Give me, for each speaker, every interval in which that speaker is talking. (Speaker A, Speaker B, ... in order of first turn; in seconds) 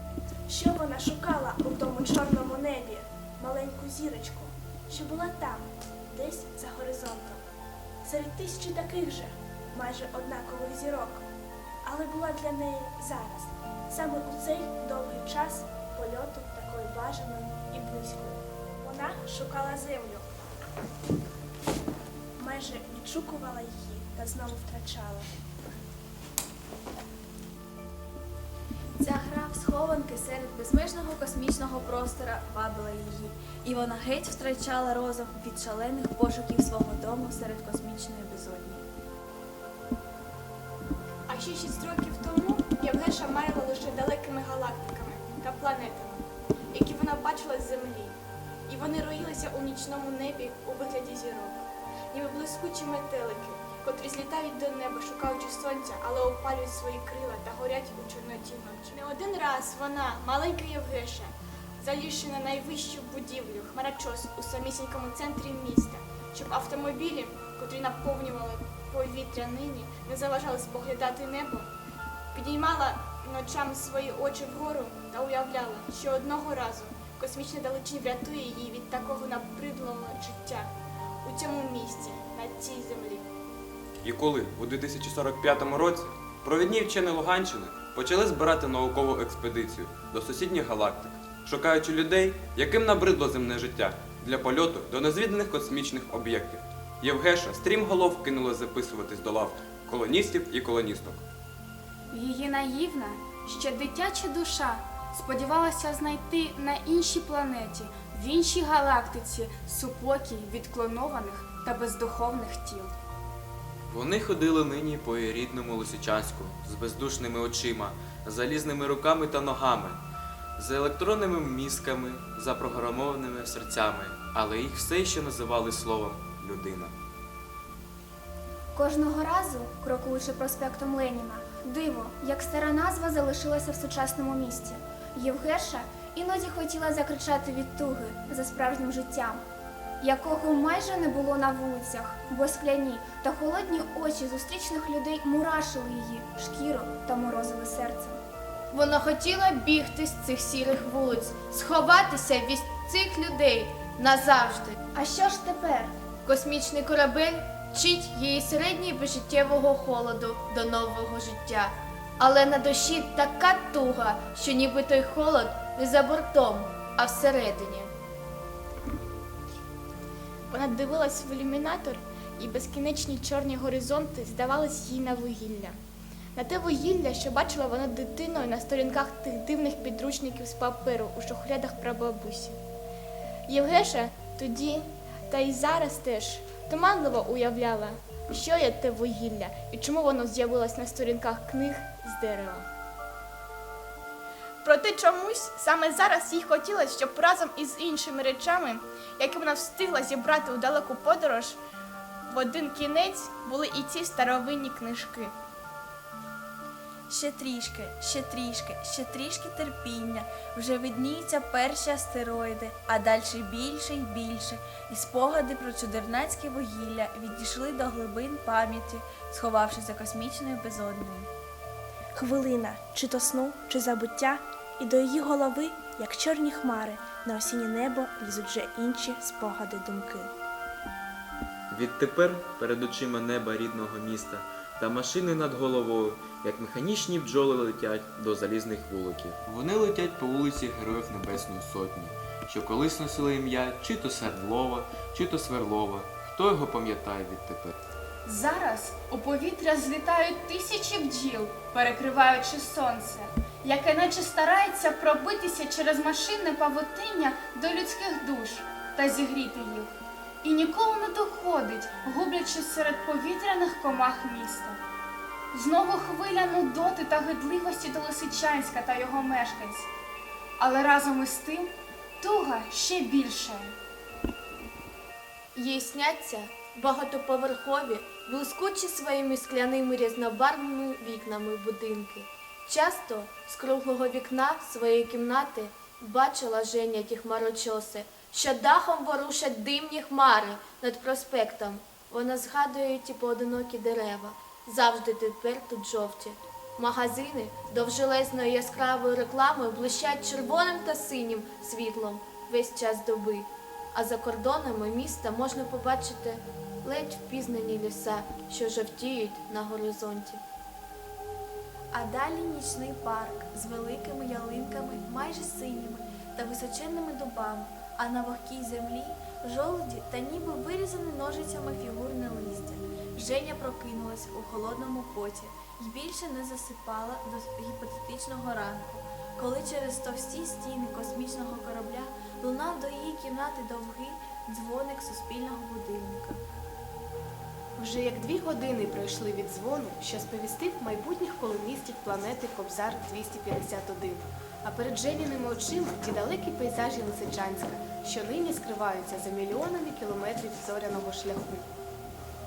Speaker A: 0.5-7.4, 8.0-11.2, 11.8-20.3, 22.4-25.3, 222.1-230.3
Speaker B: 29.0-38.8, 207.1-221.3, 311.9-336.4
Speaker C: 41.3-48.1, 48.7-71.7, 72.3-80.7, 81.2-83.3, 170.5-175.8, 176.3-182.6, 183.5-192.7, 194.6-201.6, 202.3-205.3
Speaker D: 84.0-101.2
Speaker E: 102.1-112.9, 248.2-264.8, 265.5-269.9, 270.6-273.8
Speaker F: 113.9-120.0, 120.6-126.9, 231.7-247.7
Speaker G: 128.7-139.4, 140.0-148.2, 154.9-155.9
Speaker H: 148.7-154.8, 156.2-167.9, 275.5-310.4
Speaker I: 337.8-351.6